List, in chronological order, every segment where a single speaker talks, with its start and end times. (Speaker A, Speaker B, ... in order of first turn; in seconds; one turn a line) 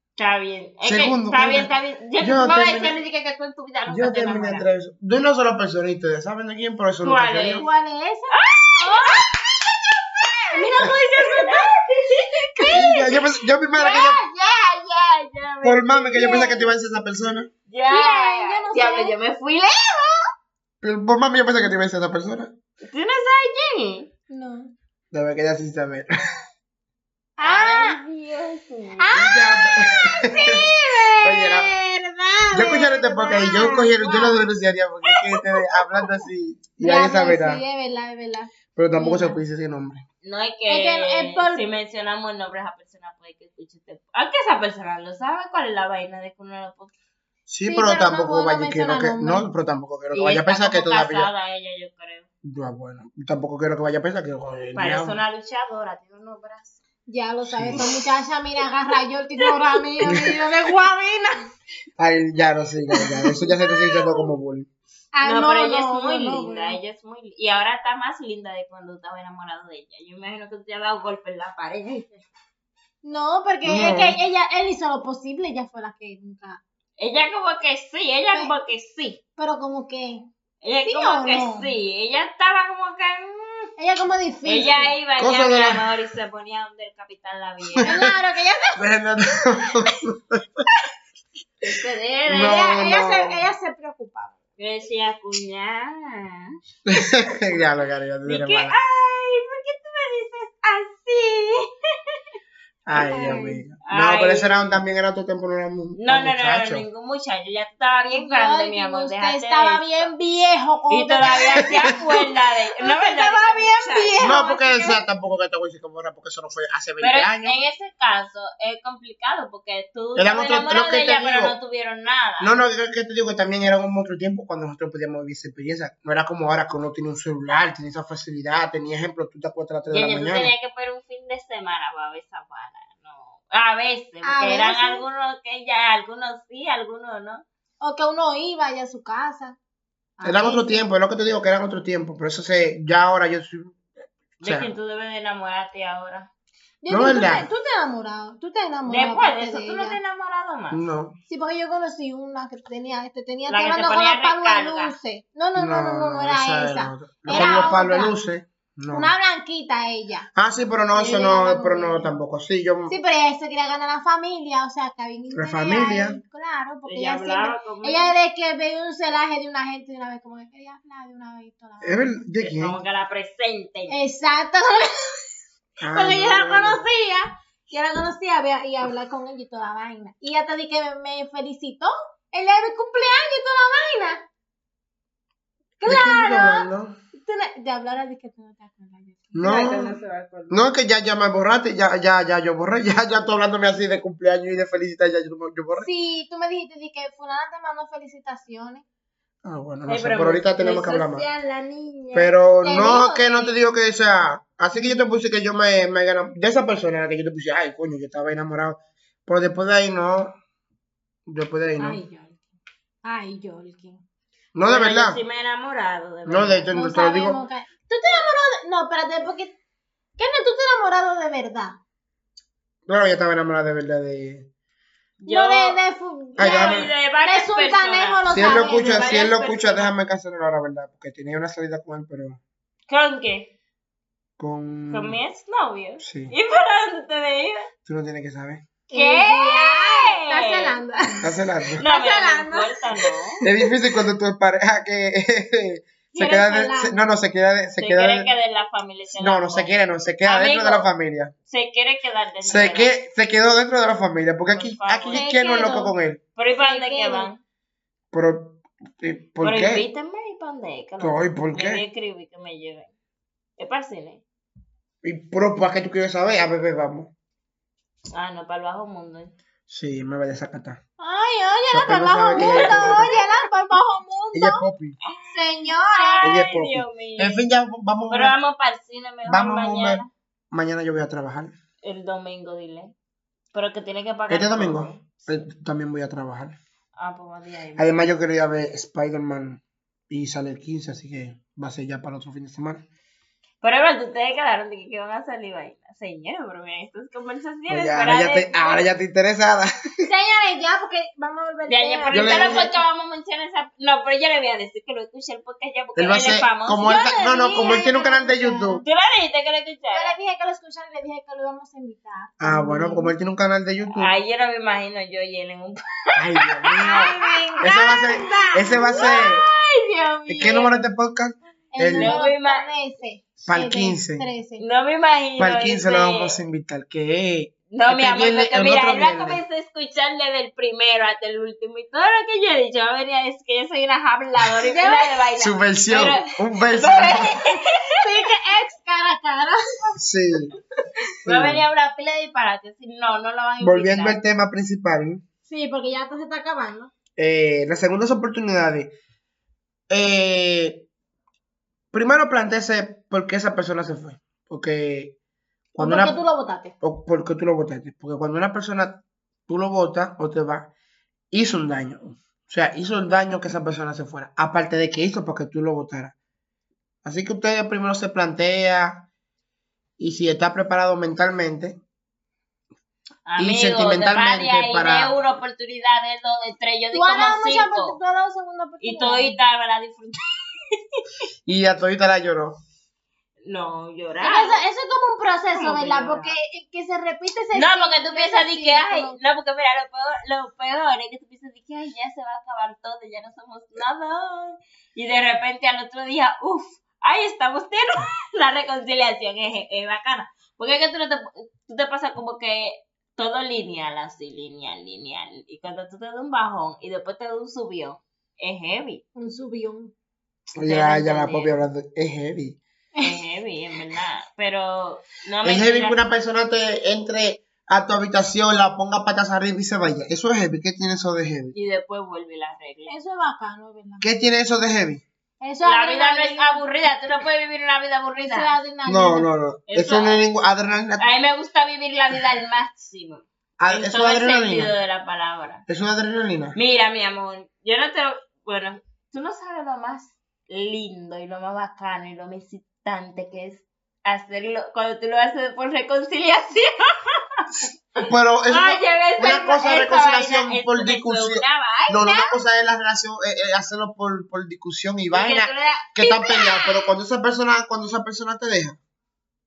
Speaker A: 0.2-4.7
Speaker B: 0.8-3.0
Speaker B: 3.9-7.7
Speaker A: 7.0-7.7
Speaker C: 7.6-9.6
Speaker A: 8.3-9.3
Speaker A: 10.2-13.0
Speaker C: 10.2-11.8
Speaker C: 12.6-13.3
Speaker B: 12.7-14.2
Speaker A: 13.7-16.4
Speaker B: 15.6-17.5
Speaker C: 16.1-16.7
Speaker A: 17.7-20.2
Speaker C: 17.9-19.1
Speaker B: 20.8-22.5
Speaker A: 22.9-24.1
Speaker C: 24.3-24.7
Speaker B: 25.1-26.1
Speaker C: 27.4-28.0
Speaker A: 27.4-29.1
Speaker C: 29.0-34.5
Speaker B: 29.1-31.7
Speaker B: 32.5-37.6
Speaker C: 35.1-36.2
Speaker C: 36.8-39.4
Speaker B: 38.8-40.0
Speaker A: 40.2-46.9
Speaker C: 40.7-41.6
Speaker B: 47.5-51.3
Speaker C: 47.6-49.5
Speaker A: 50.1-52.3
Speaker B: 52.4-55.2
Speaker A: 54.8-56.8
Speaker C: 57.1-61.4
Speaker B: 57.5-57.9
Speaker B: 60.0-60.4
Speaker B: 62.0-64.7
Speaker C: 62.9-64.3
Speaker C: 65.1-66.8
Speaker A: 65.2-72.2
Speaker C: 73.0-76.6
Speaker B: 73.6-74.2
Speaker A: 77.0-79.2
Speaker C: 79.4-80.3
Speaker A: 80.6-83.7
Speaker C: 80.8-81.7
Speaker C: 83.8-85.0
Speaker A: 84.5-88.0
Speaker B: 85.2-85.9
Speaker B: 87.7-88.1
Speaker C: 87.8-88.9
Speaker B: 88.8-90.6
Speaker A: 91.6-92.6
Speaker B: 92.3-93.5
Speaker C: 92.4-94.4
Speaker A: 94.6-96.5
Speaker B: 96.9-98.8
Speaker A: 98.2-101.7
Speaker B: 102.9-106.9
Speaker C: 102.9-103.6
Speaker A: 103.9-104.8
Speaker A: 106.0-110.1
Speaker C: 108.1-112.0
Speaker A: 110.9-114.2
Speaker C: 112.8-115.0
Speaker B: 114.2-117.6
Speaker A: 117.0-122.6
Speaker B: 120.2-121.5
Speaker B: 122.4-130.5
Speaker A: 129.9-137.4
Speaker C: 134.2-135.1
Speaker C: 137.8-139.6
Speaker C: 140.2-140.8
Speaker B: 140.2-143.8
Speaker B: 144.4-144.7
Speaker A: 144.4-146.3
Speaker C: 146.8-150.0
Speaker B: 146.9-147.5
Speaker A: 148.9-150.8
Speaker B: 150.7-151.2
Speaker C: 151.3-158.2
Speaker A: 153.5-154.9
Speaker B: 155.6-159.1
Speaker A: 157.3-157.7
Speaker C: 158.9-160.3
Speaker B: 160.3-162.9
Speaker C: 160.9-162.2
Speaker C: 162.9-172.2
Speaker B: 165.3-166.2
Speaker A: 166.9-168.1
Speaker B: 171.8-172.8
Speaker A: 172.4-174.0
Speaker C: 173.9-175.2
Speaker B: 175.8-176.8
Speaker C: 175.9-184.2
Speaker C: 185.8-189.4
Speaker B: 185.8-187.0
Speaker B: 189.3-190.0
Speaker A: 189.4-190.6
Speaker B: 190.5-195.9
Speaker C: 195.8-198.8
Speaker B: 199.4-201.2
Speaker A: 199.9-202.3
Speaker B: 202.1-210.3
Speaker C: 202.6-203.6
Speaker B: 211.3-212.0
Speaker C: 211.8-212.4
Speaker C: 213.0-214.0
Speaker B: 214.5-215.2
Speaker A: 214.6-216.7
Speaker B: 216.3-217.4
Speaker C: 216.7-219.6
Speaker C: 220.2-221.8
Speaker B: 222.9-224.5
Speaker A: 225.2-225.8
Speaker C: 225.3-229.2
Speaker B: 226.4-226.9
Speaker A: 226.4-229.9
Speaker B: 228.3-232.4
Speaker A: 232.9-233.5
Speaker B: 234.4-235.2
Speaker A: 234.9-237.7
Speaker B: 236.0-236.3
Speaker B: 237.9-238.7
Speaker C: 238.9-243.7
Speaker A: 238.9-240.8
Speaker B: 241.2-241.8
Speaker A: 241.8-243.4
Speaker B: 243.4-248.3
Speaker C: 246.1-247.0
Speaker A: 247.8-250.9
Speaker B: 249.1-251.3
Speaker A: 251.5-252.9
Speaker B: 252.4-256.2
Speaker A: 254.5-255.3
Speaker C: 255.1-255.9
Speaker A: 256.4-257.4
Speaker C: 256.6-257.3
Speaker B: 258.1-259.9
Speaker A: 259.4-262.9
Speaker B: 261.0-261.8
Speaker A: 263.6-264.2
Speaker B: 265.0-267.1
Speaker A: 268.1-269.3
Speaker B: 269.7-270.8
Speaker C: 271.0-274.6
Speaker B: 271.7-273.1
Speaker A: 272.3-273.3
Speaker B: 274.3-275.0
Speaker A: 275.0-277.4
Speaker C: 275.3-276.3
Speaker B: 276.2-278.4
Speaker A: 278.1-280.1
Speaker B: 279.2-281.5
Speaker A: 281.8-282.9
Speaker A: 283.5-285.3
Speaker B: 284.3-286.6
Speaker A: 287.0-288.0
Speaker B: 287.8-292.9
Speaker A: 293.6-298.9
Speaker B: 297.7-300.1
Speaker C: 300.0-302.7
Speaker A: 301.7-306.9
Speaker B: 302.1-302.7
Speaker B: 306.0-308.8
Speaker C: 306.8-308.8
Speaker A: 308.8-310.1
Speaker C: 309.9-313.1
Speaker B: 312.4-314.1
Speaker A: 313.9-317.3
Speaker B: 316.2-319.4
Speaker C: 316.8-319.1
Speaker A: 318.8-320.8
Speaker B: 320.3-322.1
Speaker C: 321.7-324.6
Speaker A: 322.0-322.7
Speaker B: 323.5-324.3
Speaker A: 324.6-326.4
Speaker B: 325.4-329.4
Speaker A: 327.7-338.0
Speaker C: 334.7-335.2
Speaker B: 335.4-337.3
Speaker C: 337.9-340.0
Speaker B: 340.0-340.5
Speaker A: 341.2-344.2
Speaker B: 341.2-341.6
Speaker B: 343.6-345.2
Speaker C: 345.4-346.9
Speaker B: 347.2-348.9
Speaker B: 349.9-350.9
Speaker B: 351.9-355.2
Speaker B: 355.7-356.2
Speaker C: 355.8-356.7
Speaker B: 356.8-360.7
Speaker B: 361.3-366.1
Speaker B: 367.0-369.1
Speaker B: 370.0-371.8
Speaker A: 373.3-378.0
Speaker B: 373.4-375.1
Speaker C: 376.9-379.4
Speaker A: 378.8-381.0
Speaker B: 381.5-382.6
Speaker A: 383.4-384.6
Speaker C: 384.2-389.2
Speaker A: 385.6-386.4
Speaker A: 387.5-409.0
Speaker C: 409.2-409.9
Speaker B: 410.6-412.6
Speaker A: 410.6-411.5
Speaker A: 413.0-416.0
Speaker B: 415.4-421.5
Speaker A: 421.5-423.0
Speaker C: 422.9-424.1
Speaker B: 424.0-425.0
Speaker C: 425.4-426.6
Speaker A: 425.6-428.5
Speaker C: 428.2-429.3
Speaker B: 428.9-431.0
Speaker A: 429.7-430.2
Speaker A: 431.0-435.7
Speaker B: 433.6-434.7
Speaker B: 435.7-436.6
Speaker A: 436.6-447.2
Speaker B: 447.6-458.8
Speaker A: 448.5-452.2
Speaker C: 452.0-452.3
Speaker A: 455.1-456.0
Speaker C: 456.0-456.7